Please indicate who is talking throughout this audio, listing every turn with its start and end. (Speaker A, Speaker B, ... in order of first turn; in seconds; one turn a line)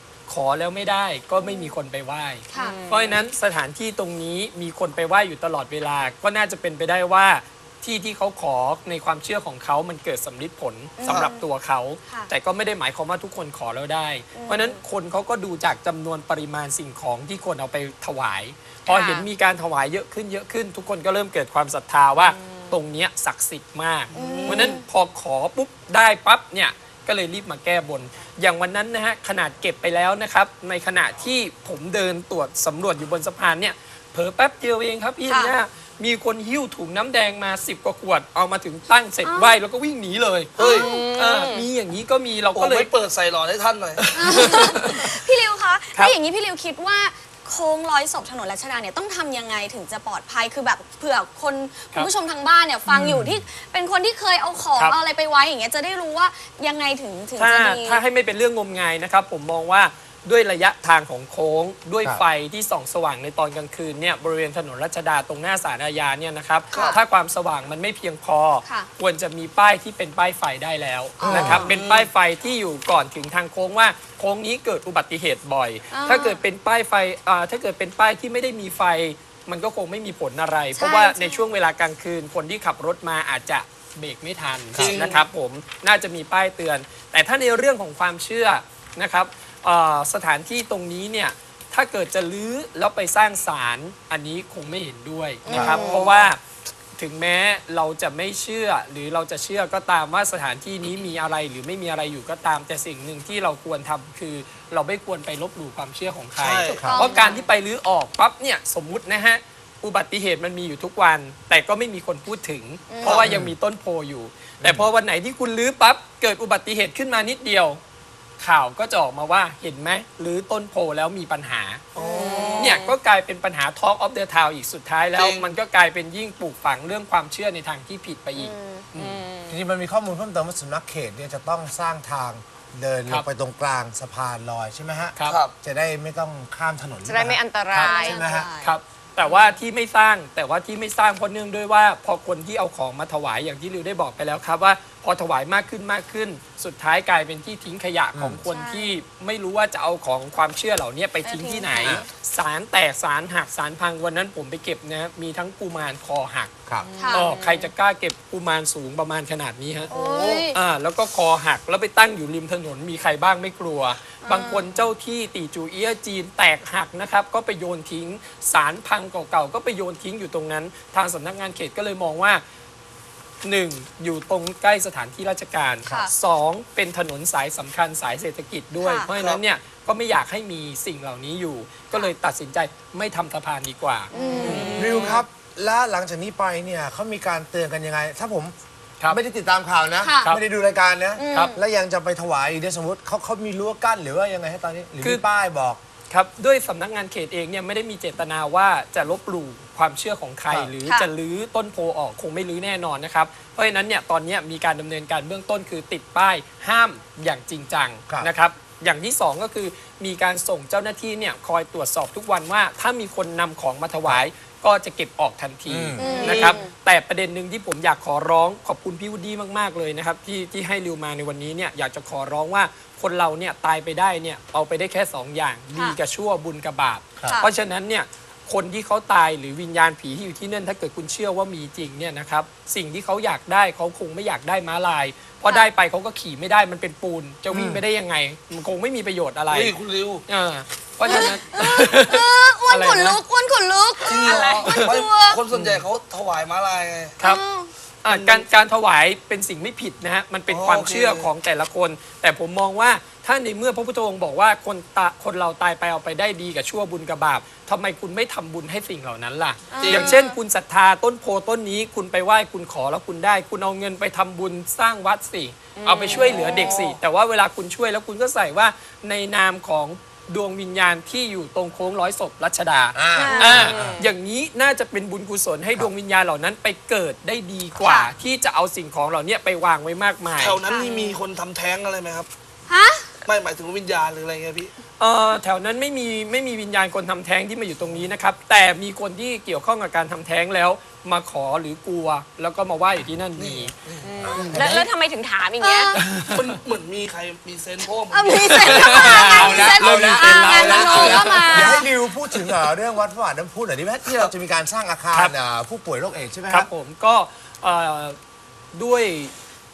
Speaker A: 0.3-42.9
Speaker B: 1.4-1.7
Speaker B: 2.5-2.8
Speaker C: 2.6-3.2
Speaker B: 11.0-11.4
Speaker D: 11.1-11.3
Speaker B: 12.1-12.3
Speaker B: 14.3-14.7
Speaker C: 18.9-19.3
Speaker C: 22.2-22.6
Speaker B: 24.1-24.8
Speaker C: 24.2-24.8
Speaker B: 35.3-35.5
Speaker B: 39.2-39.6
Speaker D: 40.5-40.9
Speaker B: 40.6-41.1
Speaker C: 40.9-41.6
Speaker D: 42.5-44.5
Speaker A: 44.1-45.1
Speaker B: 44.1-58.0
Speaker E: 52.9-53.4
Speaker A: 52.9-53.2
Speaker A: 57.4-96.4
Speaker D: 66.7-67.0
Speaker B: 66.7-67.0
Speaker B: 68.6-68.9
Speaker E: 71.2-71.7
Speaker D: 71.3-72.1
Speaker B: 75.9-76.4
Speaker B: 80.7-81.5
Speaker E: 84.7-85.2
Speaker D: 84.8-85.2
Speaker B: 95.4-95.8
Speaker E: 95.5-95.8
Speaker C: 95.8-96.2
Speaker A: 97.0-117.8
Speaker D: 106.4-106.9
Speaker E: 106.7-107.1
Speaker B: 106.7-107.5
Speaker B: 112.9-113.3
Speaker E: 113.1-113.5
Speaker E: 114.6-114.9
Speaker A: 118.4-121.8
Speaker D: 121.9-122.8
Speaker B: 122.0-123.0
Speaker A: 122.5-129.2
Speaker D: 125.1-125.5
Speaker B: 128.3-128.9
Speaker C: 129.0-129.5
Speaker E: 129.4-138.5
Speaker D: 135.2-135.5
Speaker C: 137.0-138.2
Speaker B: 137.8-138.8
Speaker A: 138.6-156.5
Speaker C: 139.2-139.5
Speaker E: 148.1-148.4
Speaker B: 148.4-149.0
Speaker B: 151.2-152.1
Speaker C: 156.9-157.7
Speaker B: 157.0-157.3
Speaker A: 157.1-159.9
Speaker B: 159.9-160.6
Speaker D: 160.0-160.4
Speaker A: 160.5-172.4
Speaker B: 164.2-164.7
Speaker A: 173.4-185.2
Speaker B: 175.8-176.1
Speaker B: 178.8-179.1
Speaker D: 179.1-179.4
Speaker B: 184.1-184.9
Speaker C: 184.2-185.1
Speaker E: 184.3-188.5
Speaker E: 189.1-195.8
Speaker B: 190.0-190.4
Speaker B: 191.2-191.6
Speaker A: 196.1-239.7
Speaker B: 200.8-201.1
Speaker E: 215.7-216.4
Speaker B: 215.9-216.7
Speaker D: 216.1-216.6
Speaker B: 227.2-227.5
Speaker E: 237.5-237.8
Speaker D: 239.5-240.2
Speaker A: 240.3-243.2
Speaker B: 241.0-245.4
Speaker D: 244.0-247.2
Speaker C: 244.2-244.6
Speaker A: 244.4-244.9
Speaker E: 245.5-245.8
Speaker B: 247.2-247.7
Speaker A: 248.0-280.6
Speaker D: 248.1-248.5
Speaker D: 250.5-251.3
Speaker B: 259.7-260.4
Speaker D: 259.8-260.2
Speaker C: 265.8-266.5
Speaker B: 266.1-266.9
Speaker E: 272.9-274.0
Speaker B: 273.1-273.6
Speaker C: 273.6-274.0
Speaker B: 277.8-278.1
Speaker D: 280.4-282.3
Speaker B: 280.6-281.2
Speaker B: 282.7-283.1
Speaker D: 283.2-284.7
Speaker A: 285.0-293.7
Speaker D: 293.4-294.7
Speaker C: 294.0-296.0
Speaker E: 294.2-294.8
Speaker A: 294.3-294.8
Speaker B: 295.6-296.0
Speaker A: 295.9-296.5
Speaker D: 296.2-299.7
Speaker B: 298.1-301.9
Speaker A: 298.6-301.8
Speaker C: 298.8-299.1
Speaker E: 299.0-306.7
Speaker D: 300.8-301.2
Speaker C: 301.4-301.8
Speaker D: 304.1-304.3
Speaker A: 306.5-308.2
Speaker A: 308.7-309.3